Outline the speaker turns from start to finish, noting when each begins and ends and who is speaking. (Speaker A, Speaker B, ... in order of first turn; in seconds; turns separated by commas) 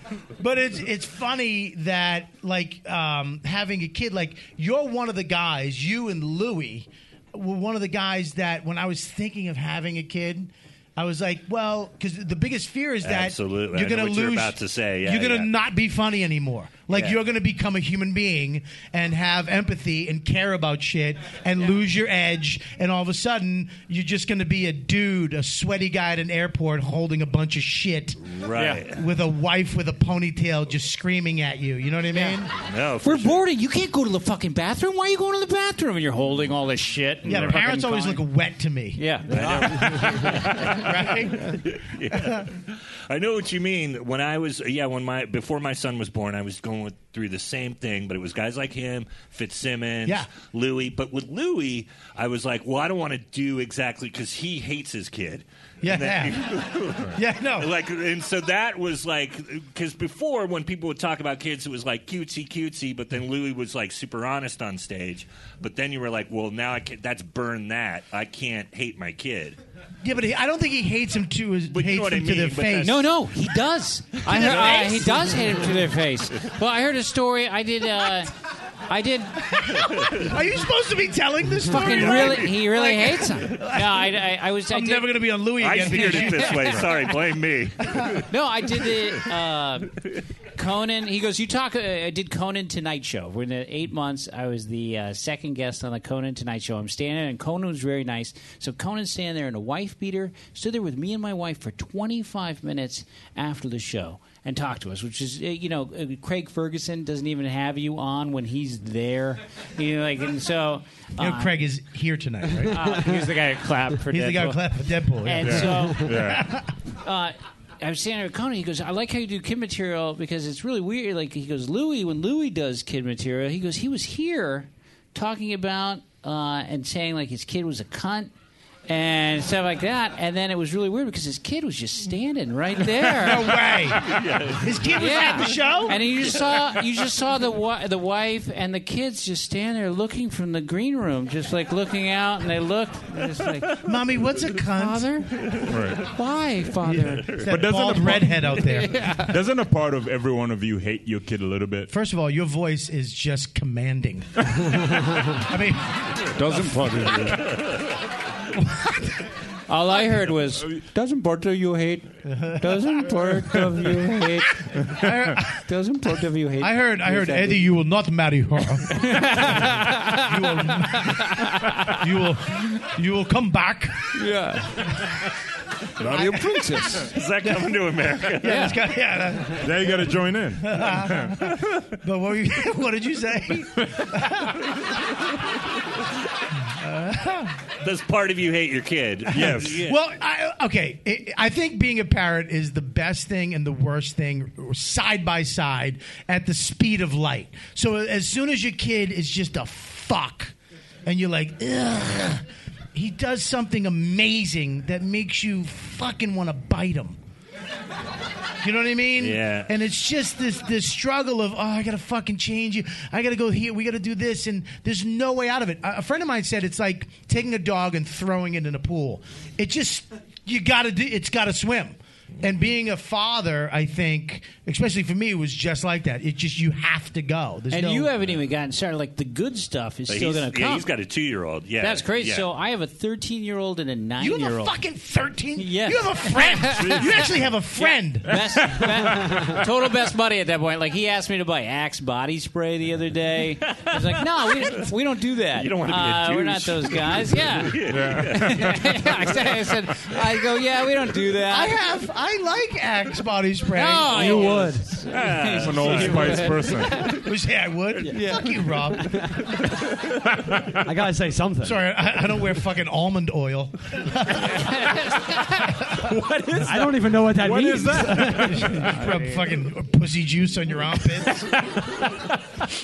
Speaker A: 0.4-28.2, Speaker B: 13.0-15.5, Speaker B: 16.9-17.2, Speaker B: 28.2-29.0, Speaker C: 28.6-28.8, Speaker A: 28.9-32.5, Speaker B: 32.6-33.4, Speaker C: 33.0-38.2, Speaker A: 37.2-39.0, Speaker C: 39.0-40.6, Speaker B: 39.3-69.6, Speaker A: 40.3-41.6, Speaker A: 42.1-42.4, Speaker A: 55.8-57.7, Speaker A: 70.0-73.0, Speaker B: 71.7-73.0, Speaker C: 72.8-78.3, Speaker A: 74.2-75.6, Speaker C: 78.9-79.6, Speaker A: 79.5-86.9, Speaker C: 81.7-85.1, Speaker B: 81.9-82.5, Speaker B: 85.6-88.2, Speaker C: 86.0-86.5, Speaker C: 88.3-90.0, Speaker C: 90.5-111.6, Speaker A: 111.2-113.0, Speaker C: 112.7-114.6, Speaker A: 114.1-116.7, Speaker C: 115.2-116.1, Speaker D: 115.4-116.5, Speaker C: 117.0-128.3, Speaker C: 128.9-133.6, Speaker A: 133.1-136.0, Speaker B: 134.0-135.0, Speaker C: 134.9-143.8, Speaker A: 143.8-145.1, Speaker C: 144.8-147.4, Speaker B: 145.4-145.7, Speaker D: 145.7-146.0, Speaker A: 146.8-149.0, Speaker D: 147.4-148.5, Speaker C: 148.5-149.3, Speaker D: 149.1-151.9, Speaker A: 151.9-154.5, Speaker A: 155.3-156.9, Speaker C: 156.3-157.4, Speaker A: 158.5-159.2, Speaker C: 159.7-164.6, Speaker A: 162.2-163.0, Speaker A: 164.9-165.5, Speaker C: 165.6-167.7, Speaker A: 166.6-169.3, Speaker C: 168.9-172.0, Speaker A: 170.0-171.4, Speaker A: 171.9-174.1, Speaker C: 174.1-175.0, Speaker C: 176.0-177.1, Speaker D: 176.1-176.4, Speaker B: 177.1-178.7, Speaker A: 178.3-179.8, Speaker C: 178.4-178.8, Speaker D: 179.6-181.3, Speaker A: 180.6-184.6, Speaker A: 186.7-187.6, Speaker B: 187.8-189.9, Speaker D: 189.3-189.8, Speaker A: 189.7-200.5, Speaker A: 201.0-207.2, Speaker A: 208.6-228.2, Speaker B: 209.2-209.7, Speaker C: 227.7-230.8, Speaker B: 230.1-232.4, Speaker C: 231.8-234.8, Speaker A: 234.2-238.7, Speaker C: 235.6-251.8, Speaker B: 243.7-244.8, Speaker B: 245.6-249.3, Speaker D: 247.9-248.7, Speaker A: 251.5-254.5, Speaker C: 253.7-257.1, Speaker E: 254.1-254.9, Speaker B: 255.1-256.6, Speaker D: 255.6-257.0, Speaker A: 257.2-259.3, Speaker E: 258.0-259.5, Speaker E: 260.8-261.8, Speaker A: 261.6-264.7, Speaker C: 264.5-265.7, Speaker E: 266.6-268.8, Speaker D: 267.3-268.9, Speaker A: 268.4-271.5, Speaker C: 268.8-269.5